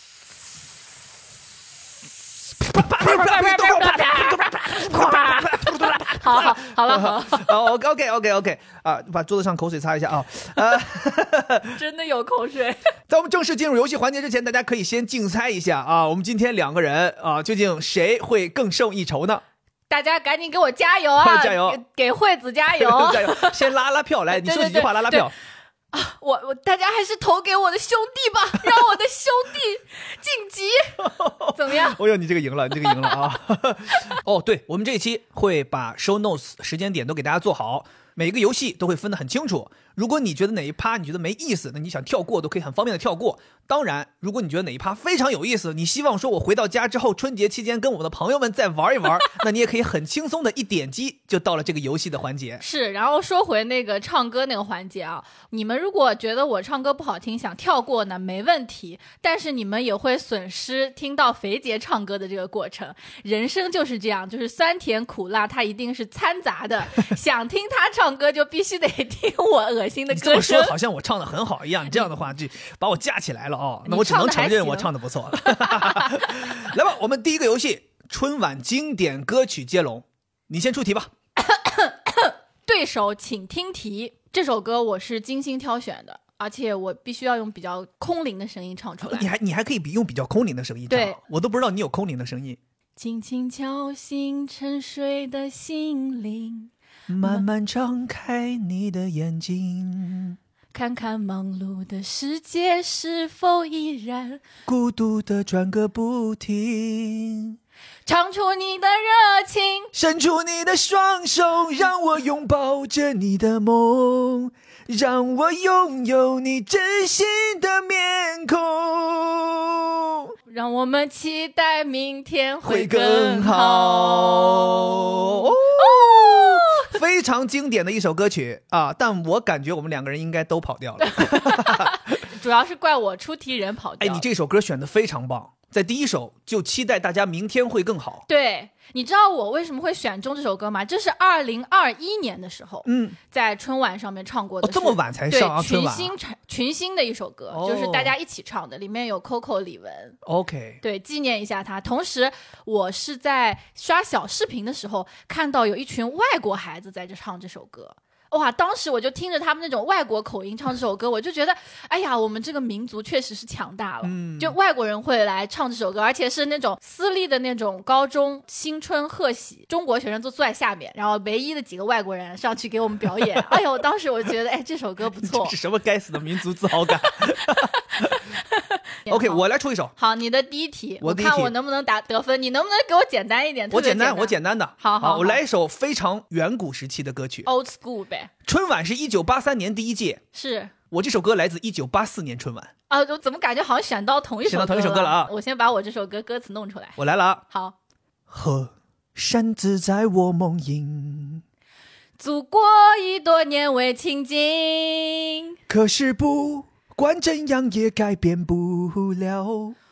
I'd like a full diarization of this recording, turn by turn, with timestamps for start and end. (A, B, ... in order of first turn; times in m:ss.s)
0:02.6-0:11.8 A
0:02.9-0:07.5 B
0:11.7-0:12.8 B
0:13.1-0:19.4 A
0:19.9-0:23.7 B
0:21.2-0:21.8 A
0:22.8-0:25.3 A
0:24.4-0:25.3 B
0:25.9-0:32.0 B
0:31.0-0:52.6 A
0:32.9-0:33.2 B
0:33.9-0:34.2 B
0:52.6-1:10.8 B
1:10.1-1:21.1 A
1:13.8-1:14.9 B
1:15.4-1:16.5 B
1:21.4-1:29.3 B
1:29.0-1:32.6 A
1:30.9-1:31.2 B
1:33.0-1:37.4 B
1:37.1-1:40.4 A
1:40.7-1:44.4 B
1:44.7-1:47.6 A
1:48.1-1:49.9 B
1:49.9-2:00.4 A
2:00.5-2:07.0 B
2:02.6-2:12.2 A
2:11.0-2:14.3 B
2:14.0-2:18.3 A
2:18.3-2:30.2 B
2:22.8-2:23.2 A
2:24.6-2:26.2 A
2:27.5-2:28.1 A
2:30.2-2:30.8 A
2:30.8-2:55.6 B
2:44.0-2:44.6 A
2:53.3-2:53.6 A
2:55.2-2:58.2 A
2:57.5-2:59.4 B
2:59.1-2:59.9 A
3:00.0-3:05.4 B
3:01.0-3:01.5 A
3:03.7-3:07.5 A
3:07.5-3:08.3 B
3:08.4-3:10.2 A
3:10.3-3:10.7 B
3:10.9-3:12.7 A
3:12.9-3:17.0 B
3:14.5-3:15.3 A
3:17.0-3:17.4 A
3:17.5-3:17.8 B
3:18.3-3:21.4 A
3:22.2-3:25.5 B
3:25.7-3:29.8 A